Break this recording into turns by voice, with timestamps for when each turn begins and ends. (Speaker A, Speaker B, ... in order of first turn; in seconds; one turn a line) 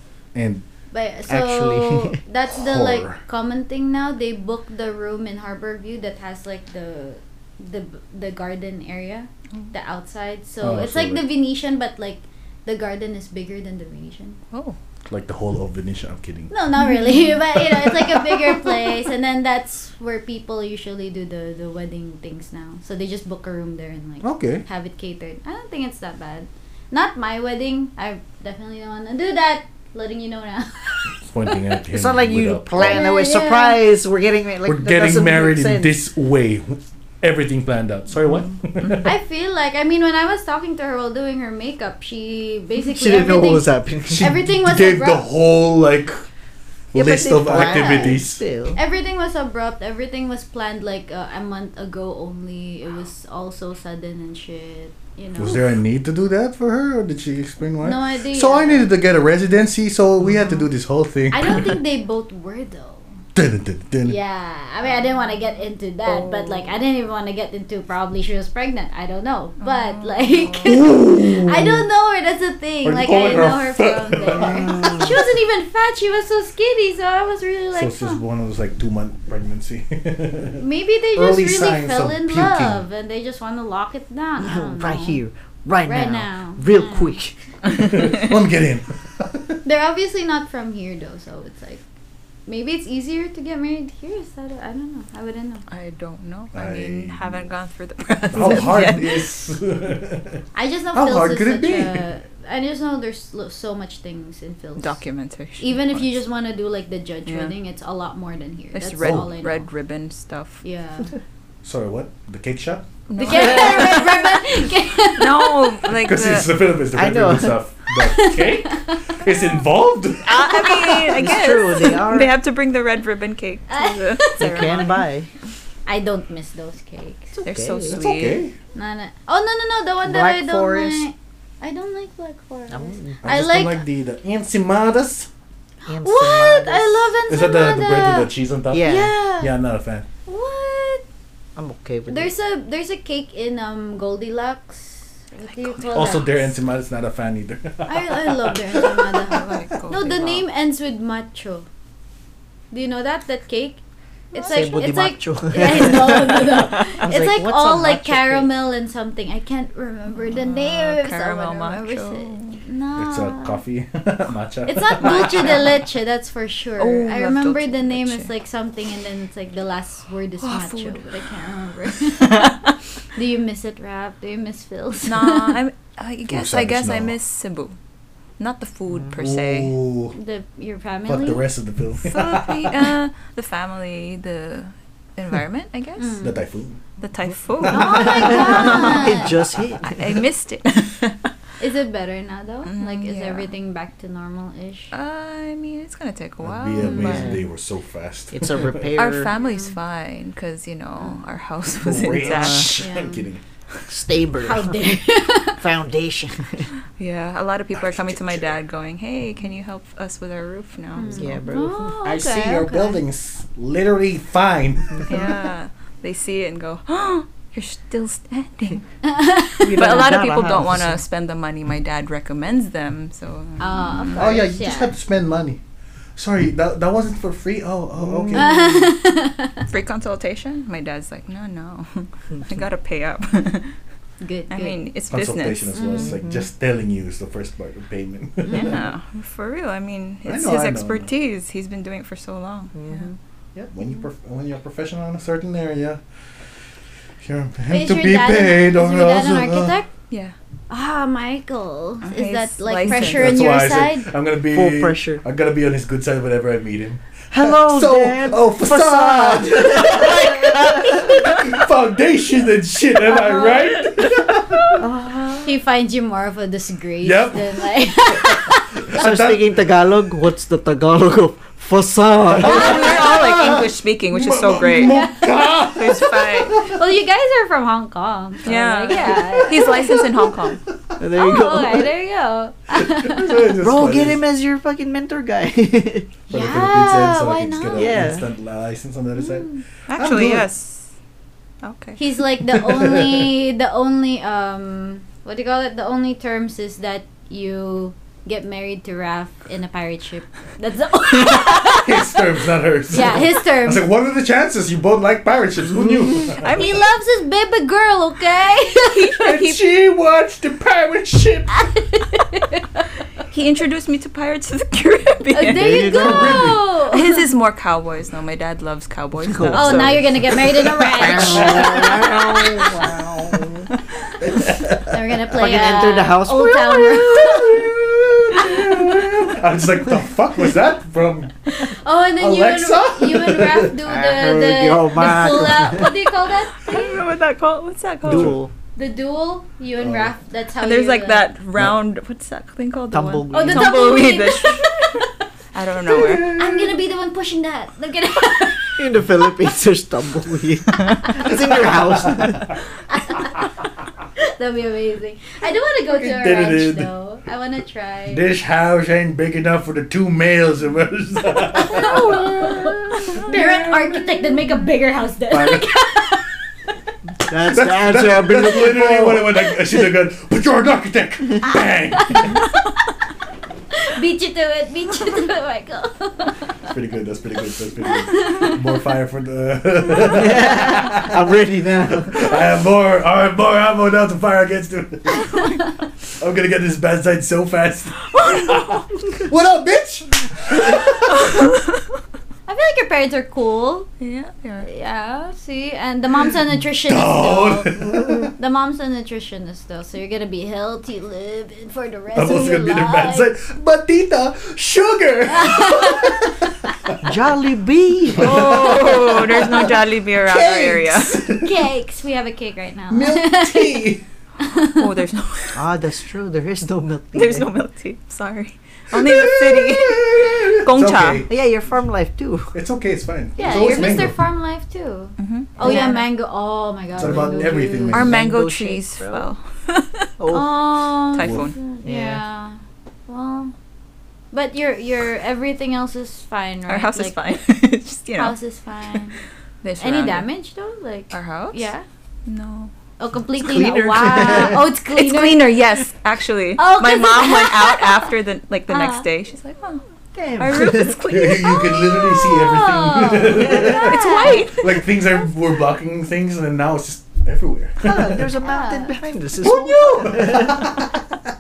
Speaker A: 0.3-0.6
Speaker B: 0.9-14.4
Speaker C: 1.3-2.2
Speaker A: 2.5-3.2
Speaker A: 10.6-11.2
Speaker D: 14.5-14.8
Speaker A: 15.1-16.5
Speaker B: 16.5-31.6
Speaker A: 17.5-18.7
Speaker A: 24.2-24.6
Speaker A: 31.2-33.0
Speaker C: 31.9-36.0
Speaker B: 32.8-33.8
Speaker A: 34.6-39.1
Speaker B: 39.0-45.2
Speaker C: 42.8-44.4
Speaker A: 44.2-46.2
Speaker A: 46.9-48.4
Speaker C: 46.9-48.8
Speaker B: 47.6-48.2
Speaker B: 48.7-55.6
Speaker A: 55.4-61.8
Speaker B: 57.8-58.9
Speaker B: 61.3-63.1
Speaker A: 63.4-64.2
Speaker B: 64.0-78.2
Speaker D: 66.1-66.7
Speaker D: 69.6-70.7
Speaker A: 70.7-71.8
Speaker A: 72.8-75.2
Speaker C: 74.4-75.1
Speaker A: 77.7-80.6
Speaker B: 80.6-85.2
Speaker A: 81.1-82.8
Speaker C: 84.4-87.3
Speaker B: 85.8-87.2
Speaker A: 87.7-89.6
Speaker B: 89.6-91.8
Speaker B: 92.5-95.7
Speaker D: 95.7-99.5
Speaker A: 96.5-97.5
Speaker A: 98.3-100.4
Speaker B: 100.5-105.0
Speaker A: 100.9-102.0
Speaker D: 104.8-106.2
Speaker B: 105.6-109.6
Speaker D: 107.3-107.5
Speaker D: 108.7-110.6
Speaker A: 109.0-109.3
Speaker B: 110.6-111.1
Speaker A: 111.6-112.9
Speaker D: 113.1-114.4
Speaker B: 113.2-115.8
Speaker C: 113.3-114.0
Speaker D: 115.1-116.5
Speaker A: 116.0-120.7
Speaker C: 116.9-117.6
Speaker B: 117.9-119.6
Speaker D: 120.2-125.0
Speaker B: 120.6-121.1
Speaker C: 121.1-122.4
Speaker B: 123.7-124.9
Speaker C: 124.4-125.3
Speaker B: 125.9-127.4
Speaker D: 127.4-128.4
Speaker C: 127.4-128.0
Speaker A: 127.9-128.5
Speaker B: 128.7-133.8
Speaker C: 130.0-131.1
Speaker C: 132.7-133.2
Speaker A: 133.2-135.3
Speaker B: 135.9-138.3
Speaker C: 135.9-137.1
Speaker A: 137.3-140.1
Speaker C: 138.7-139.3
Speaker B: 138.9-139.5
Speaker B: 140.3-141.0
Speaker C: 141.6-142.3
Speaker B: 142.1-146.4
Speaker D: 145.4-146.3
Speaker A: 145.9-149.4
Speaker B: 147.9-151.7
Speaker D: 149.3-150.4
Speaker B: 152.7-153.8
Speaker B: 154.3-163.6
Speaker D: 154.3-154.7
Speaker C: 154.5-158.5
Speaker D: 160.3-162.6
Speaker A: 163.0-165.7
Speaker B: 164.7-172.5
Speaker D: 166.8-168.3
Speaker D: 170.4-171.1
Speaker D: 172.2-172.5
Speaker B: 173.1-175.6
Speaker D: 175.1-177.8
Speaker A: 176.3-177.1
Speaker D: 178.4-179.7
Speaker A: 179.1-180.2
Speaker B: 180.1-181.4
Speaker A: 181.1-182.9
Speaker D: 182.0-186.2
Speaker B: 186.0-186.4
Speaker A: 186.2-186.8
Speaker D: 187.0-189.2
Speaker A: 187.6-188.4
Speaker B: 187.7-189.3
Speaker C: 187.9-190.1
Speaker D: 189.8-191.2
Speaker B: 191.6-194.9
Speaker D: 192.6-193.5
Speaker D: 194.9-197.3
Speaker A: 196.4-198.9
Speaker B: 196.8-197.3
Speaker C: 197.0-197.3
Speaker C: 198.3-199.3
Speaker D: 198.9-202.9
Speaker B: 199.4-199.7
Speaker A: 201.8-203.4
Speaker C: 202.1-202.7
Speaker B: 202.8-203.3
Speaker C: 203.9-204.9
Speaker B: 204.4-205.6
Speaker C: 205.6-206.7
Speaker D: 207.0-211.4
Speaker A: 207.7-208.5
Speaker B: 210.9-213.0
Speaker C: 211.1-211.9
Speaker A: 212.0-215.3
Speaker D: 212.4-212.7
Speaker D: 215.1-218.8
Speaker B: 219.0-219.8
Speaker C: 219.6-221.0
Speaker D: 219.7-224.2
Speaker B: 223.6-224.9
Speaker A: 224.2-225.6
Speaker A: 226.2-228.8
Speaker C: 228.0-228.5
Speaker B: 228.3-229.6
Speaker D: 229.7-233.7
Speaker B: 234.2-234.8
Speaker D: 234.5-235.8
Speaker A: 235.1-238.8
Speaker B: 235.7-236.2
Speaker C: 236.0-236.5
Speaker B: 238.4-238.8
Speaker D: 238.5-243.1
Speaker A: 240.2-241.1
Speaker C: 242.7-243.7
Speaker A: 243.7-246.0
Speaker A: 247.2-249.7
Speaker B: 247.7-249.9
Speaker D: 250.1-250.3
Speaker B: 250.7-254.1
Speaker D: 252.0-253.3
Speaker A: 252.9-264.8
Speaker C: 254.4-255.2
Speaker C: 257.3-261.3
Speaker B: 263.1-263.7
Speaker C: 264.8-265.5
Speaker B: 265.4-268.8
Speaker A: 267.0-269.5
Speaker C: 268.9-273.0
Speaker A: 272.3-276.8
Speaker D: 272.4-275.0
Speaker B: 274.7-275.6
Speaker D: 275.6-276.7
Speaker B: 276.5-280.0
Speaker D: 278.4-280.6
Speaker C: 281.0-281.9
Speaker B: 281.1-283.5
Speaker A: 282.8-284.2
Speaker C: 283.6-286.1
Speaker B: 286.3-288.1
Speaker A: 286.3-290.4
Speaker C: 287.7-288.3
Speaker B: 289.2-289.6
Speaker D: 289.9-290.9
Speaker D: 291.6-292.0
Speaker B: 292.0-303.9
Speaker A: 292.5-293.3
Speaker A: 301.4-306.6
Speaker D: 306.4-306.8
Speaker B: 306.4-309.3
Speaker D: 308.9-309.6
Speaker A: 309.2-311.6
Speaker B: 311.5-312.9
Speaker D: 313.3-315.9
Speaker B: 315.3-317.2
Speaker C: 315.5-316.5
Speaker A: 315.9-316.6
Speaker D: 316.9-320.0
Speaker C: 319.2-323.6
Speaker B: 319.5-322.1
Speaker A: 321.2-322.4
Speaker A: 324.2-324.9
Speaker B: 324.9-327.6
Speaker C: 325.3-328.5
Speaker A: 327.2-333.8
Speaker B: 328.4-328.7
Speaker B: 331.6-337.0
Speaker C: 333.9-336.0
Speaker D: 336.6-338.4
Speaker C: 338.0-338.5
Speaker A: 338.0-338.4
Speaker B: 338.8-341.2
Speaker A: 339.8-340.1
Speaker D: 340.6-344.9
Speaker C: 342.9-343.8
Speaker B: 343.3-345.1
Speaker D: 345.5-346.4
Speaker B: 346.2-348.9
Speaker C: 348.8-352.5
Speaker A: 351.5-352.2
Speaker B: 352.9-353.4
Speaker B: 354.4-358.2
Speaker A: 355.9-356.9
Speaker A: 358.1-362.3
Speaker B: 361.5-366.2
Speaker A: 363.1-363.7
Speaker A: 365.3-365.7
Speaker C: 367.2-369.9
Speaker A: 367.5-372.4
Speaker B: 371.5-372.4
Speaker B: 373.9-376.5
Speaker A: 376.6-381.2
Speaker B: 377.8-378.6
Speaker C: 380.0-382.3
Speaker A: 381.9-391.4
Speaker D: 388.1-388.6
Speaker D: 391.1-391.9
Speaker B: 392.5-393.9
Speaker D: 394.0-394.7
Speaker B: 394.6-403.3
Speaker A: 396.8-398.3
Speaker A: 402.1-407.0
Speaker B: 405.3-406.2
Speaker C: 407.0-408.8
Speaker A: 408.1-411.5
Speaker D: 408.1-411.2
Speaker B: 411.4-414.9
Speaker A: 412.9-414.0
Speaker D: 414.7-415.6
Speaker C: 415.5-417.5
Speaker D: 417.1-421.2
Speaker A: 418.9-421.3
Speaker C: 421.3-422.5
Speaker A: 422.5-424.2
Speaker B: 423.4-428.1
Speaker C: 423.4-423.8
Speaker D: 425.2-426.0
Speaker C: 425.6-425.9
Speaker A: 427.0-428.2
Speaker C: 427.0-429.2
Speaker D: 427.9-430.1
Speaker C: 430.2-430.6
Speaker B: 430.3-433.5
Speaker D: 431.1-431.6
Speaker A: 431.2-431.5
Speaker C: 431.8-432.2
Speaker B: 434.3-437.2
Speaker D: 436.7-438.4
Speaker B: 438.2-439.2
Speaker D: 439.6-440.3
Speaker B: 439.8-441.8
Speaker D: 441.1-441.7
Speaker D: 442.2-442.7
Speaker B: 443.0-445.6
Speaker C: 443.4-444.7
Speaker D: 444.9-449.8
Speaker B: 446.6-448.1
Speaker B: 448.7-449.1
Speaker C: 450.1-451.0
Speaker D: 450.4-451.7
Speaker A: 451.1-458.3
Speaker B: 451.4-454.5
Speaker D: 453.5-454.9
Speaker C: 457.8-460.8
Speaker B: 458.4-458.9
Speaker A: 459.4-461.0